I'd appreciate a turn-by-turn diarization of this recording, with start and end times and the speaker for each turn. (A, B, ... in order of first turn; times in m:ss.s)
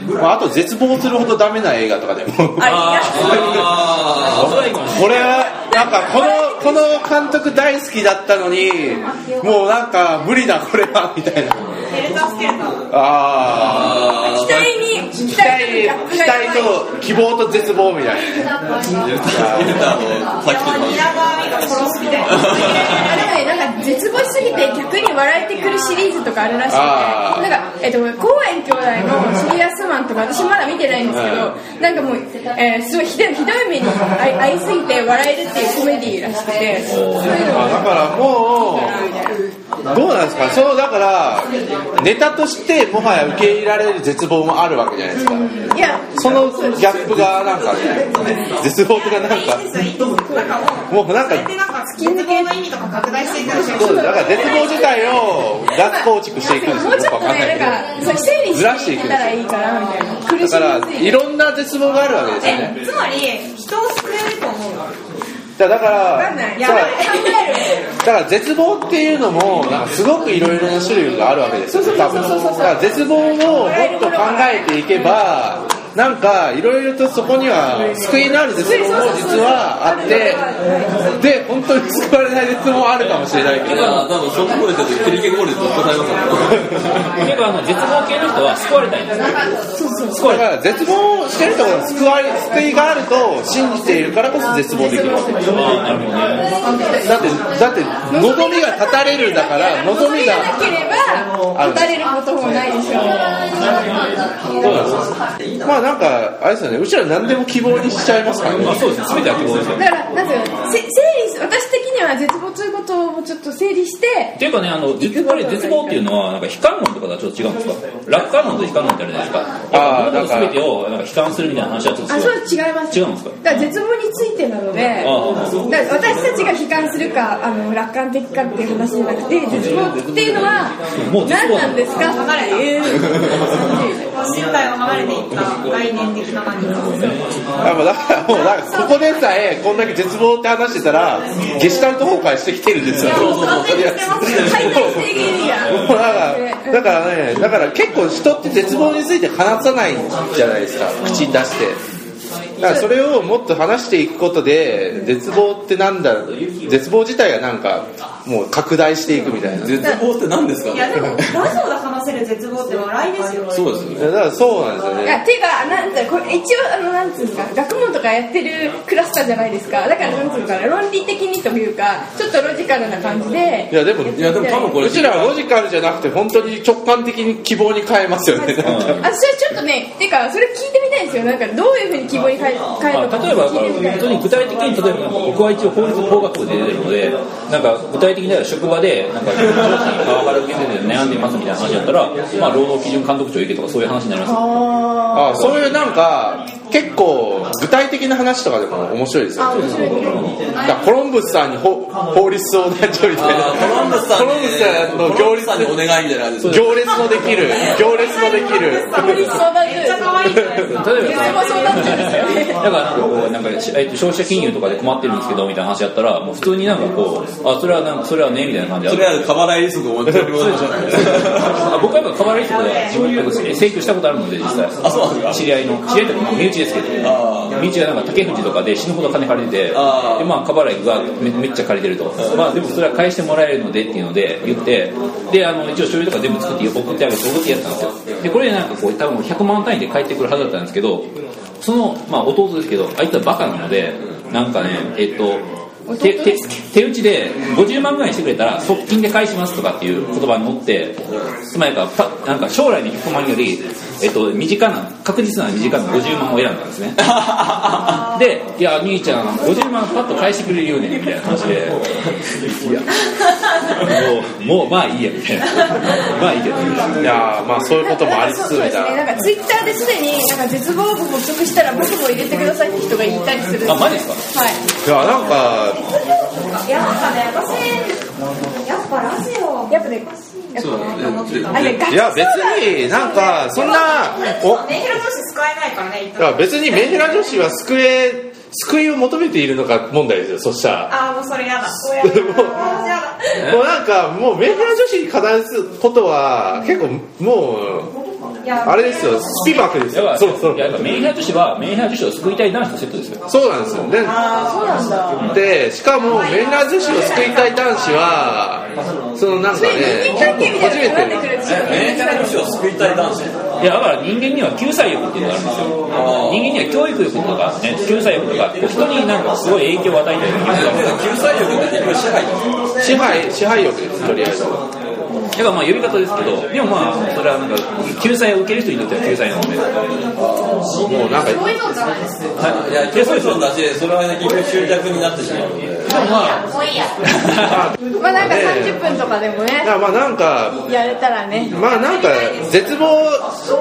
0:00.2-0:03.6 A
0:02.6-0:03.4 B
0:02.6-0:05.2 C
0:03.2-0:04.6 D
0:04.4-0:11.6 A
0:05.6-0:06.9 B
0:11.9-0:12.8 E
0:12.9-0:14.2 A
0:13.6-0:14.8 D
0:14.3-0:16.7 B
0:15.3-0:18.5 A
0:19.0-0:21.1 D
0:19.3-0:19.9 A
0:20.4-0:23.4 E
0:22.2-0:23.0 D
0:22.9-0:39.4 B
0:26.7-0:27.5 A
0:31.1-0:31.5 A
0:36.8-0:37.6 C
0:37.5-0:39.0 A
0:39.9-0:49.6 A
0:45.7-0:47.0 B
0:48.8-0:55.0 E
0:50.9-0:51.5 A
0:52.0-0:52.5 B
0:53.6-0:55.1 B
0:53.7-0:57.8 A
0:55.8-1:01.2 B
0:58.5-0:59.3 A
1:00.4-1:02.8 A
1:02.4-1:04.9 E
1:05.6-1:07.0 A
1:06.1-1:07.8 B
1:06.6-1:07.8 E
1:08.0-1:20.4 A
1:11.7-1:12.8 B
1:13.6-1:15.2 B
1:18.6-1:20.9 B
1:21.2-1:24.0 A
1:23.6-1:24.1 C
1:23.7-1:26.7 D
1:27.2-1:29.5 C
1:29.7-1:30.2 B
1:30.2-1:30.4 C
1:30.2-1:35.6 A
1:34.7-1:35.8 B
1:35.5-1:36.5 C
1:36.6-1:37.2 B
1:37.0-1:40.6 A
1:38.1-1:43.8 B
1:41.5-1:41.9 A
1:44.6-1:45.1 C
1:44.6-1:45.0 A
1:45.6-1:48.8 A
1:48.6-1:49.9 C
1:49.8-1:54.4 B
1:54.4-2:03.6 C
1:55.0-1:56.0 B
1:59.7-2:00.6 A
2:02.1-2:05.2 B
2:05.0-2:05.7 C
2:05.7-2:14.0 B
2:09.5-2:11.9 C
2:12.0-2:17.1 E
2:16.6-2:17.4 C
2:17.6-2:31.8 A
2:18.3-2:19.1 B
2:23.0-2:25.4 D
2:23.0-2:24.8 E
2:23.1-2:23.4 B
2:24.2-2:27.0 B
2:32.6-2:39.9 A
2:39.5-2:41.4 D
2:40.7-2:43.6 E
2:43.5-2:44.0 D
2:44.0-2:45.2 A
2:45.0-2:54.8 B
2:53.7-2:59.1 A
2:54.1-2:55.4 D
2:58.6-2:59.1 C
2:59.0-3:04.2 B
3:02.9-3:15.6 C
3:14.2-3:15.3 B
3:15.1-3:19.9 A
3:19.4-3:20.2 B
3:19.5-3:20.4 C
3:20.6-3:25.9 A
3:23.1-3:26.7 D
3:26.4-3:29.4 A
3:27.5-3:32.2 E
3:28.9-3:30.2 B
3:30.7-3:39.3 C
3:30.9-3:32.6 B
3:38.8-3:41.6 D
3:40.1-4:01.1 C
3:42.5-3:43.0 E
3:44.8-3:45.4 D
3:47.0-3:47.6 D
3:49.7-3:50.3 D
4:01.6-4:05.4 C
4:05.9-4:06.6 B
4:06.0-4:17.0 C
4:17.0-4:18.0 D
4:18.1-4:21.8 C
4:22.4-4:22.9 C
4:23.8-4:27.0 C
4:27.0-4:29.0 A
4:27.8-4:34.6 B
4:33.6-4:34.2 C
4:34.8-4:35.8 A
4:35.7-4:38.0 E
4:38.6-4:41.8 E
4:39.7-4:41.0 B
4:40.6-4:41.8 D
4:41.5-4:44.0 B
4:41.9-4:44.8 A
4:43.5-4:47.4 E
4:46.2-4:50.9 A
4:50.9-4:53.4 E
4:52.0-4:52.6 A
4:53.4-4:57.9 A
4:58.4-4:59.8 E
4:58.6-5:01.0 A
4:59.9-5:03.2 C
5:03.3-5:04.1 A
5:04.0-5:04.9 E
5:04.1-5:05.2 B
5:05.3-5:11.3 A
5:06.0-5:07.9 E
5:09.5-5:12.4 B
5:11.4-5:13.3 D
5:13.6-5:21.0 C
5:15.9-5:16.5 D
5:20.5-5:22.5 D
5:22.8-5:24.6 A
5:25.3-5:29.7 C
5:30.8-5:31.5 A
5:32.4-5:36.1 D
5:32.4-5:33.5 C
5:35.9-5:36.4 C
5:37.1-5:37.6 C
5:37.4-5:38.8 A
5:38.0-5:39.7 B
5:39.6-5:40.6 A
5:40.6-5:41.6 B
5:41.5-5:43.3 A
5:41.6-5:42.7 E